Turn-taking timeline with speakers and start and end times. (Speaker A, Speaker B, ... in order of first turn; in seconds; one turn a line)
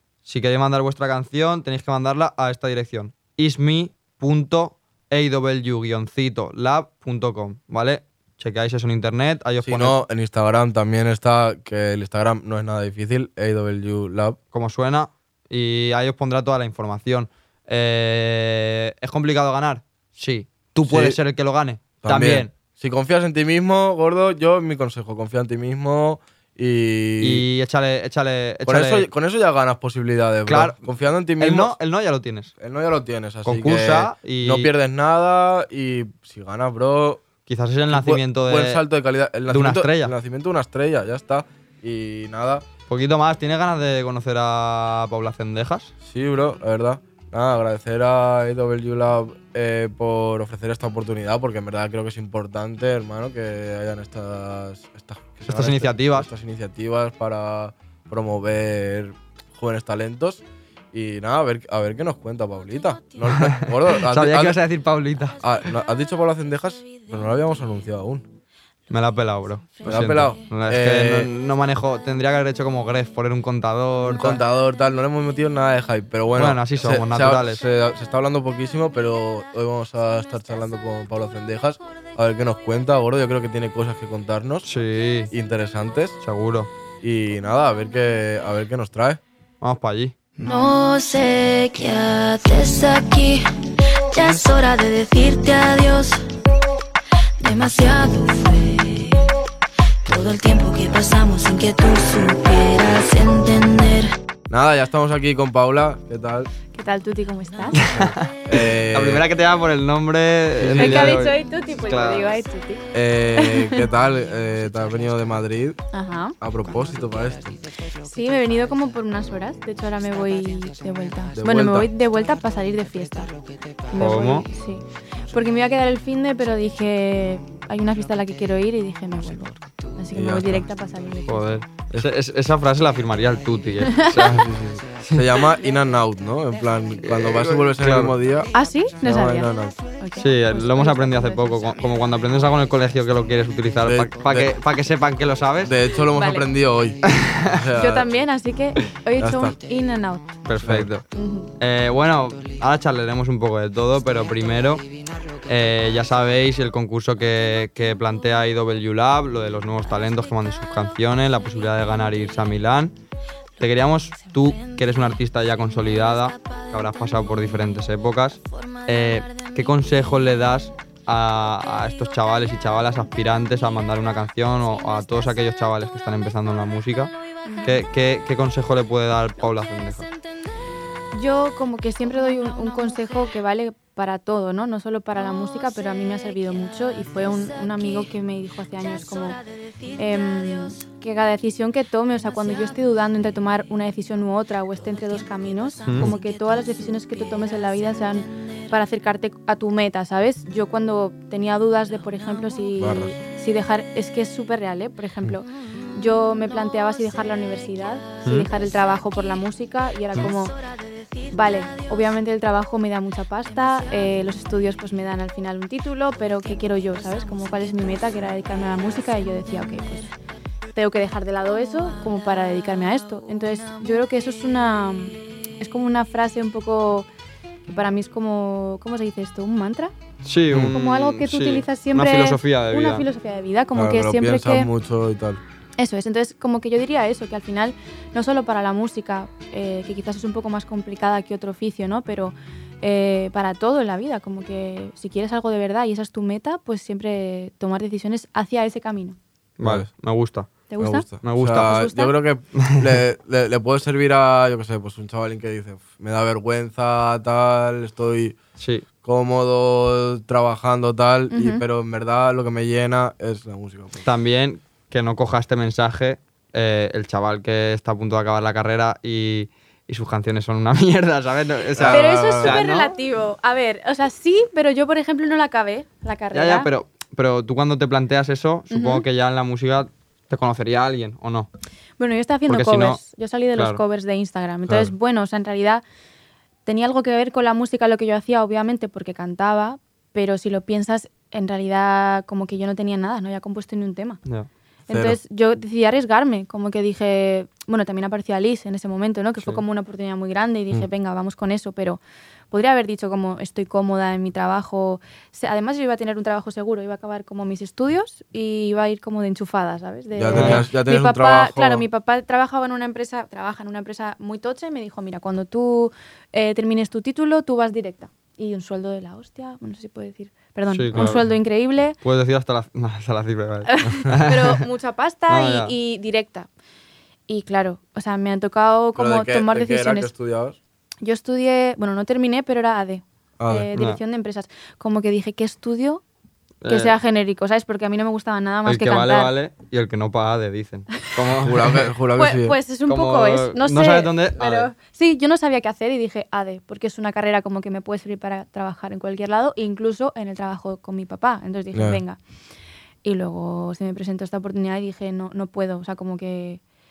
Speaker A: 0.2-10.0
Speaker B: 9.6-14.4
Speaker A: 14.5-22.5
Speaker B: 20.9-21.2
Speaker B: 22.0-27.4
Speaker A: 27.2-29.1
Speaker B: 28.6-31.7
Speaker A: 30.5-30.8
Speaker A: 31.4-32.5
Speaker B: 32.6-37.2
Speaker A: 33.4-34.7
Speaker A: 37.5-38.8
Speaker B: 37.9-42.6
Speaker A: 39.5-40.1
Speaker A: 42.9-45.9
Speaker B: 46.0-64.6
Speaker A: 55.5-56.3
Speaker A: 63.2-65.5
Speaker B: 65.4-68.2
Speaker A: 68.9-74.4
Speaker B: 69.8-71.3
Speaker B: 74.1-84.7
Speaker A: 76.3-77.6
Speaker A: 84.6-85.3
Speaker B: 85.3-86.2
Speaker A: 86.2-86.7
Speaker B: 87.0-89.2
Speaker A: 89.6-90.1
Speaker C: 90.4-93.4
Speaker C: 94.1-96.2
Speaker C: 97.4-99.3
Speaker C: 100.1-104.1
Speaker B: 104.5-106.5
Speaker D: 106.7-107.8
Speaker B: 107.8-109.2
Speaker A: 107.8-112.4
Speaker B: 110.6-111.2
Speaker D: 110.7-112.8
Speaker B: 112.9-115.8
Speaker D: 113.3-113.9
Speaker D: 115.9-116.3
Speaker B: 116.4-117.6
Speaker D: 118.0-123.3
Speaker B: 121.4-121.9
Speaker D: 123.8-131.6
Speaker A: 124.0-124.5
Speaker B: 130.1-130.7
Speaker A: 131.3-134.5
Speaker D: 133.8-134.2
Speaker B: 134.1-138.5
Speaker A: 135.0-135.3
Speaker A: 137.0-138.2
Speaker D: 138.5-141.5
Speaker B: 139.0-139.8
Speaker A: 140.2-145.8
Speaker B: 143.8-144.6
Speaker B: 145.6-148.1
Speaker D: 146.1-146.5
Speaker A: 147.0-147.7
Speaker D: 147.8-150.2
Speaker B: 149.2-149.6
Speaker A: 150.4-151.0
Speaker B: 150.6-150.9
Speaker D: 151.1-151.5
Speaker A: 151.6-154.8
Speaker A: 155.4-162.9
Speaker A: 163.6-177.1
Speaker C: 166.5-167.0
Speaker C: 168.6-169.5
Speaker D: 177.4-177.8
Speaker A: 177.6-180.1
Speaker D: 181.1-189.4
Speaker C: 182.3-183.1
Speaker C: 187.3-187.9
Speaker C: 189.8-190.6
Speaker D: 189.9-210.6
Speaker C: 192.3-192.8
Speaker C: 195.0-197.9
Speaker B: 202.8-203.1
Speaker C: 211.2-211.8
Speaker D: 211.3-220.1
Speaker C: 213.8-214.2
Speaker C: 216.8-217.4
Speaker D: 220.7-227.1
Speaker D: 227.7-229.9
Speaker A: 230.2-233.1
Speaker D: 230.6-234.7
Speaker B: 233.7-235.4
Speaker D: 235.8-249.2
Speaker A: 249.6-250.5
Speaker D: 250.7-251.1
Speaker B: 250.8-258.4
Speaker A: 251.2-251.8
Speaker D: 251.6-252.1
Speaker A: 252.6-253.0
Speaker A: 258.6-258.8
Speaker B: 259.0-264.1
Speaker D: 261.3-261.6
Speaker A: 264.0-273.0
Speaker B: 271.7-272.6
Speaker D: 271.9-276.7
Speaker A: 276.3-281.5
Speaker D: 278.7-279.0
Speaker D: 282.0-285.8
Speaker A: 282.5-283.0
Speaker A: 283.5-283.8
Speaker D: 286.6-294.2
Speaker D: 294.9-302.0
Speaker B: 294.9-295.2
Speaker D: 302.5-322.0
Speaker B: 310.1-311.9
Speaker A: 310.3-310.6
Speaker A: 320.7-321.2
Speaker B: 320.9-321.2
Speaker A: 322.0-324.7
Speaker D: 323.6-326.5
Speaker A: 325.3-325.7
Speaker D: 327.3-330.1
Speaker B: 328.9-330.6
Speaker D: 331.0-336.0
Speaker B: 333.4-333.7
Speaker A: 336.6-337.0
Speaker D: 336.7-339.3
Speaker A: 338.6-341.9
Speaker B: 341.4-342.6
Speaker D: 342.2-352.2
Speaker A: 342.9-344.7
Speaker B: 351.7-352.0
Speaker D: 353.0-356.6